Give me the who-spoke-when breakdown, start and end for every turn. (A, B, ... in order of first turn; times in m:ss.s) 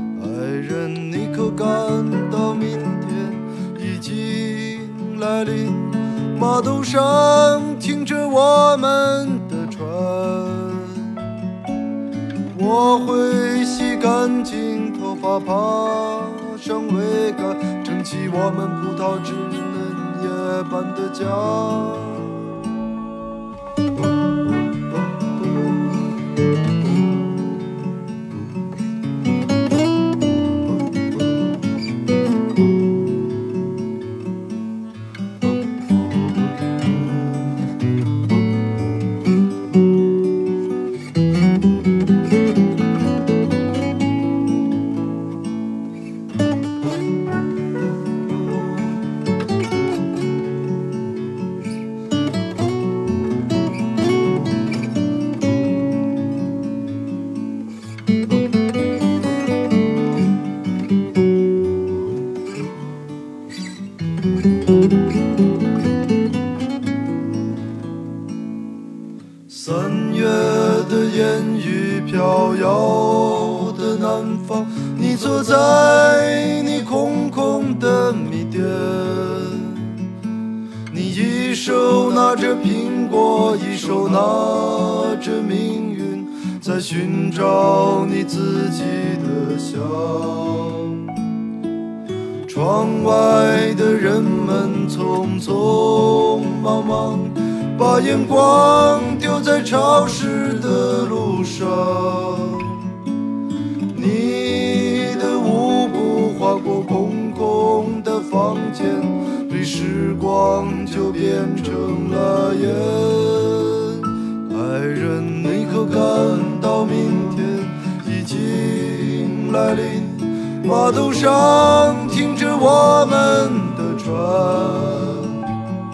0:00.1-0:11.2 A
0:12.5-0:22.4 A
1:09.5-1:20.0 A
1:20.9-1:31.1 A
1:32.4-1:42.9 A
1:43.9-2:05.4 A